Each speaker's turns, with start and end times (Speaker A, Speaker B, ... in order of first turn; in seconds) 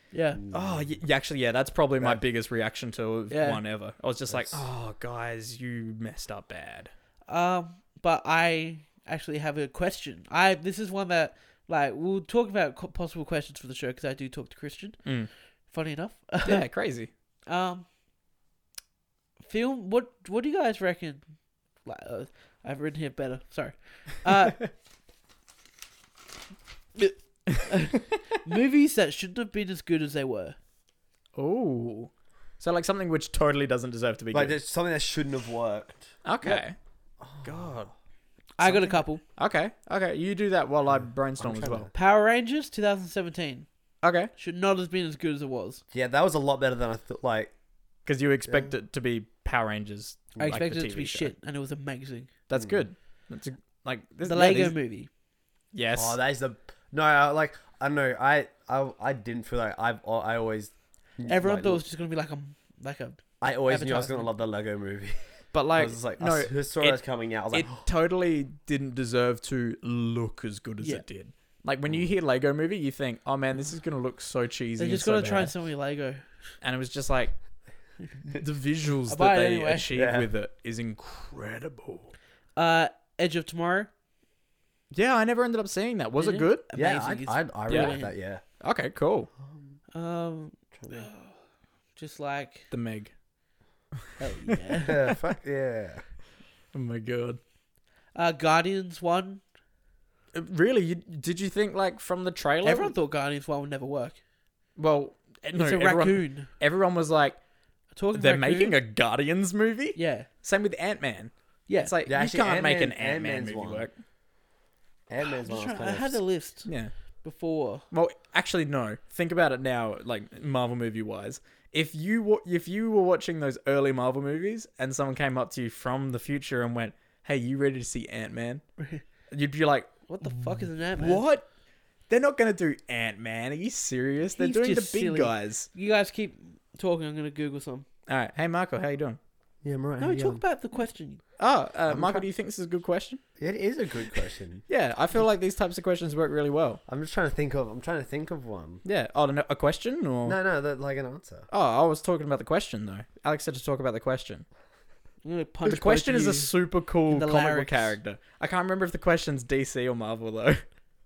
Speaker A: 0.1-0.4, 3.3-3.6, 7.3-15.1, 15.7-16.6, 17.5-17.9, 19.4-21.3, 21.8-24.7, 27.0-30.6, 38.6-39.2, 41.9-43.7, 44.4-45.8, 50.4-52.3, 54.2-55.1, 61.2-64.3, 74.8-76.2, 79.1-79.9, 82.5-83.9, 86.2-88.1, 89.9-91.3, 91.9-92.7, 94.2-95.1, 98.1-99.4, 102.6-104.2, 105.5-106.5, 107.9-108.8, 109.9-110.3, 115.2-116.7, 117.2-117.8, 130.1-131.2, 134.3-137.8, 140.0-141.2, 155.2-156.6, 157.1-157.9
Speaker B: 0.4-1.0, 4.3-4.6, 34.3-36.6, 37.2-37.8, 40.9-41.9, 45.9-47.5, 52.5-52.8, 55.9-61.8, 63.4-65.2, 65.7-67.8, 79.9-80.3, 86.7-88.4, 89.4-89.8, 90.7-91.1, 94.8-96.0, 112.0-113.9, 115.1-116.2, 139.6-140.4, 141.9-142.3, 143.4-144.6, 146.9-148.8, 150.2-151.5
Speaker C: 0.5-6.9, 15.0-15.3, 16.4-17.1, 31.4-34.5, 36.2-36.8, 37.4-37.9, 38.6-41.9, 44.0-44.3, 48.0-51.3, 52.5-54.7, 55.7-56.2, 65.5-75.5, 76.6-77.4, 78.3-82.1, 84.9-86.6, 87.7-88.0, 88.6-89.3, 92.7-93.1, 96.7-97.4, 100.3-102.9, 104.8-107.4, 108.1-113.9, 116.7-116.9, 117.9-128.6, 129.3-129.9, 130.9-131.4, 132.1-135.7, 138.1-139.2, 141.4-143.2, 144.7-146.8, 148.8-150.4, 151.5-154.4, 155.6-160.6